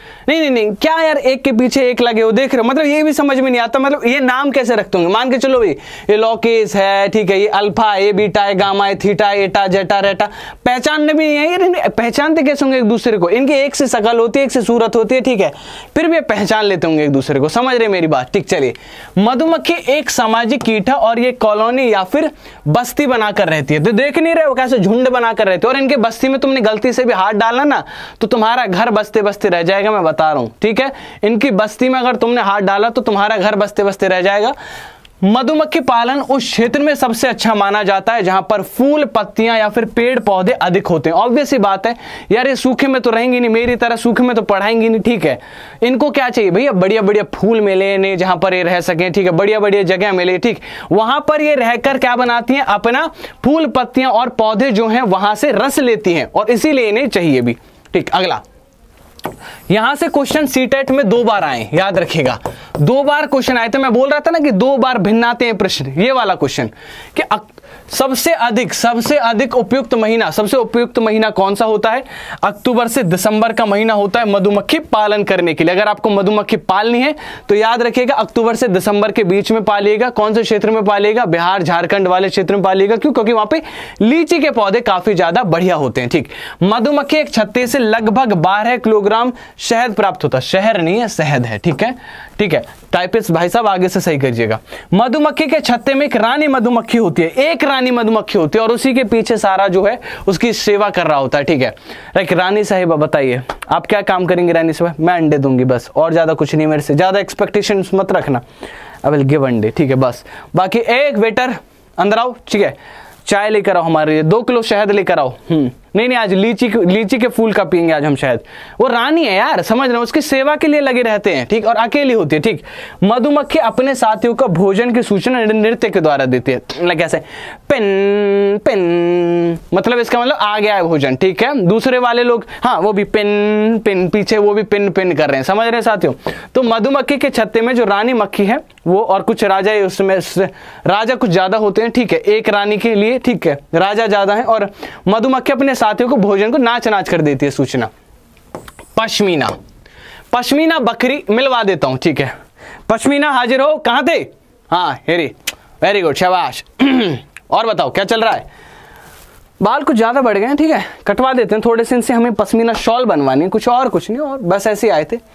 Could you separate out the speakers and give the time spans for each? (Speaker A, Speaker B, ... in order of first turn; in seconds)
Speaker A: 0.3-34.5, 35.2-58.4, 59.7-108.4, 109.0-147.9, 149.0-149.6, 150.3-152.3, 152.9-158.5, 159.6-165.2